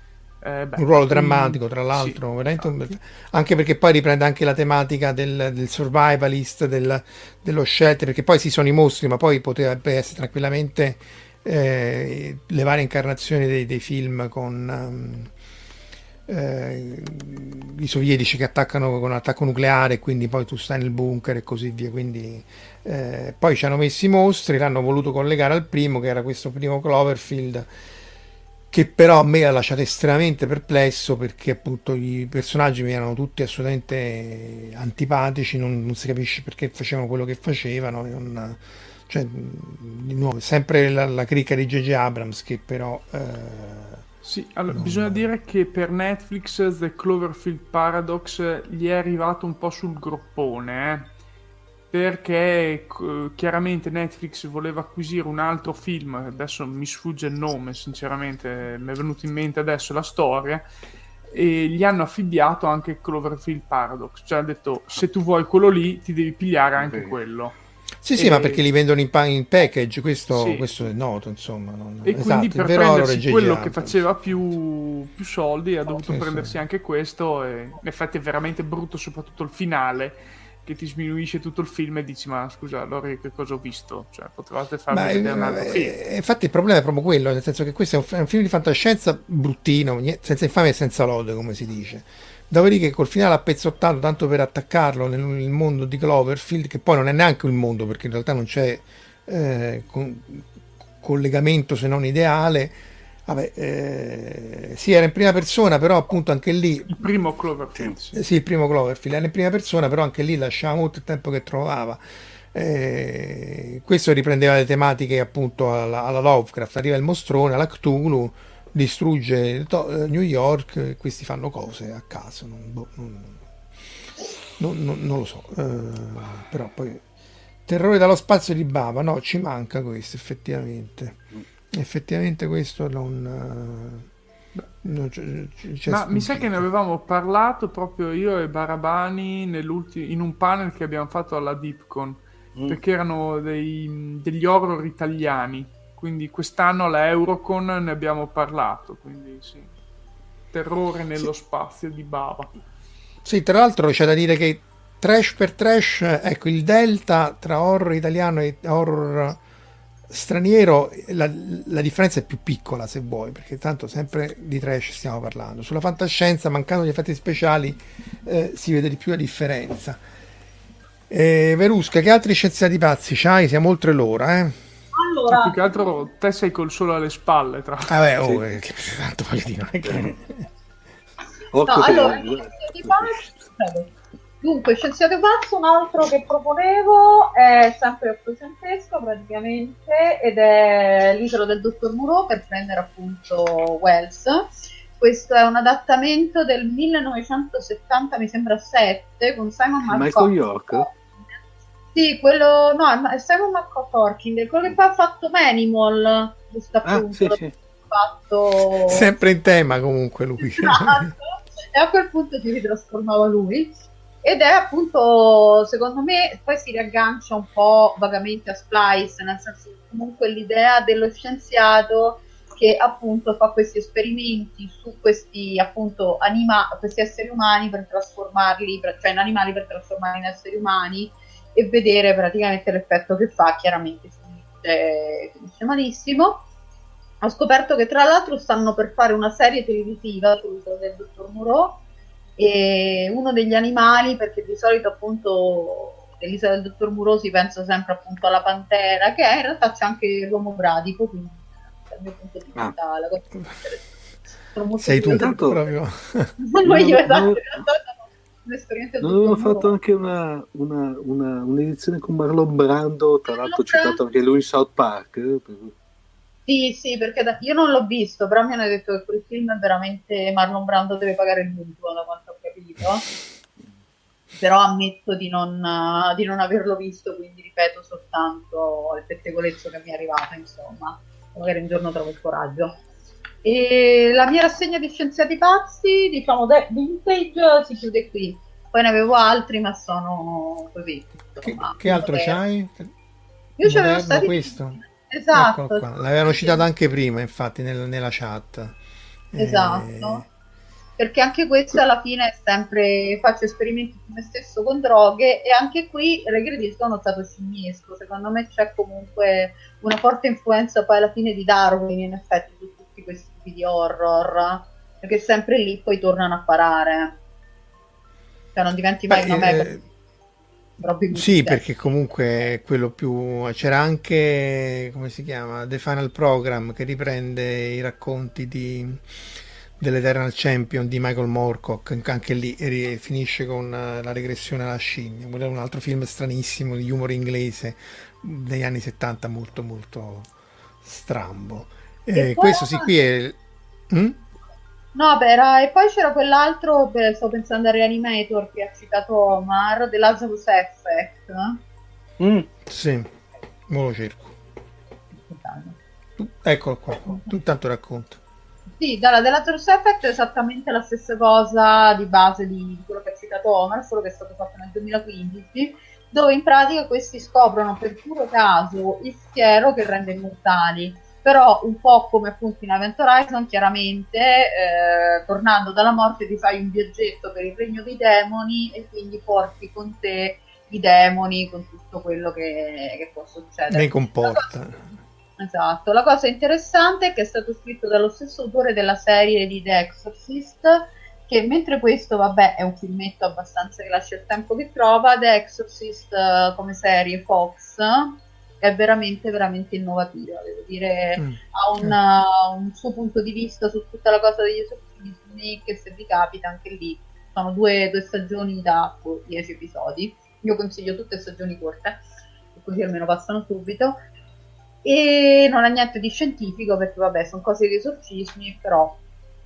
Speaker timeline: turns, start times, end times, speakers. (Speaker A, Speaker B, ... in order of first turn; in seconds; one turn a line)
Speaker A: 0.4-2.7
Speaker B: 0.8-15.3
Speaker B: 16.3-27.7
Speaker B: 28.7-44.0
Speaker A: 44.2-51.1
Speaker B: 44.7-45.3
Speaker A: 51.9-60.7
Speaker A: 61.3-67.6
Speaker C: 66.8-67.2
Speaker B: 68.0-74.0
Speaker A: 68.2-68.6
Speaker A: 70.3-70.7
Speaker A: 72.0-85.9
Speaker B: 76.0-76.6
Speaker B: 84.9-100.5
Speaker B: 101.0-106.9
Speaker A: 106.9-108.2
Speaker B: 108.1-112.0
Speaker B: 112.5-123.4
Speaker B: 124.6-127.0
Speaker B: 127.7-131.2
Speaker B: 131.7-134.1
Speaker B: 134.8-136.7
Speaker A: 135.9-149.7
Speaker A: 150.5-152.5
Speaker B: 153.2-159.4
Speaker B: 160.1-170.0
Speaker B: 171.1-174.6
Speaker D: 174.9-175.7
Speaker A: 175.3-178.0
Speaker B: 177.9-180.5
Speaker C: 178.2-178.5
Speaker C: 179.9-180.2
Speaker C: 181.5-183.1
Speaker D: 181.7-183.9
Speaker D: 184.4-201.0
Speaker C: 199.9-200.9
Speaker D: 201.9-209.1
Speaker C: 206.8-207.5
Speaker B: 208.9-211.1
Speaker D: 210.6-211.1
Speaker D: 211.7-236.5
Speaker D: 237.2-241.8
Speaker D: 242.4-253.9
Speaker D: 254.5-255.4
Speaker B: 254.8-256.4
Speaker C: 255.1-255.6
Speaker D: 256.5-259.7
Speaker C: 256.6-257.6
Speaker C: 259.0-265.7
Speaker D: 263.3-264.0
Speaker D: 266.5-273.1
Speaker D: 274.4-282.8
Speaker D: 283.4-292.4
Speaker B: 291.4-292.9
Speaker D: 293.6-296.6
Speaker B: 293.6-294.8
Speaker B: 295.3-298.8
Speaker B: 299.3-300.3
Speaker D: 299.4-300.2
Speaker D: 301.0-317.2
Speaker D: 318.6-319.7
Speaker B: 319.1-319.8
Speaker D: 320.8-321.6
Speaker B: 321.1-329.0
Speaker B: 329.8-340.3
Speaker B: 340.8-343.4
Speaker D: 342.1-342.9
Speaker B: 343.9-344.2
Speaker D: 344.9-351.6
Speaker C: 352.2-352.5
Speaker B: 352.7-353.1
Speaker B: 353.7-354.4
Speaker D: 355.3-355.8
Speaker B: 356.2-358.2
Speaker D: 358.8-384.6
Speaker B: 383.7-384.9
Speaker D: 385.4-412.0
Speaker B: 401.2-402.0
Speaker D: 412.6-414.0
Speaker D: 414.8-419.0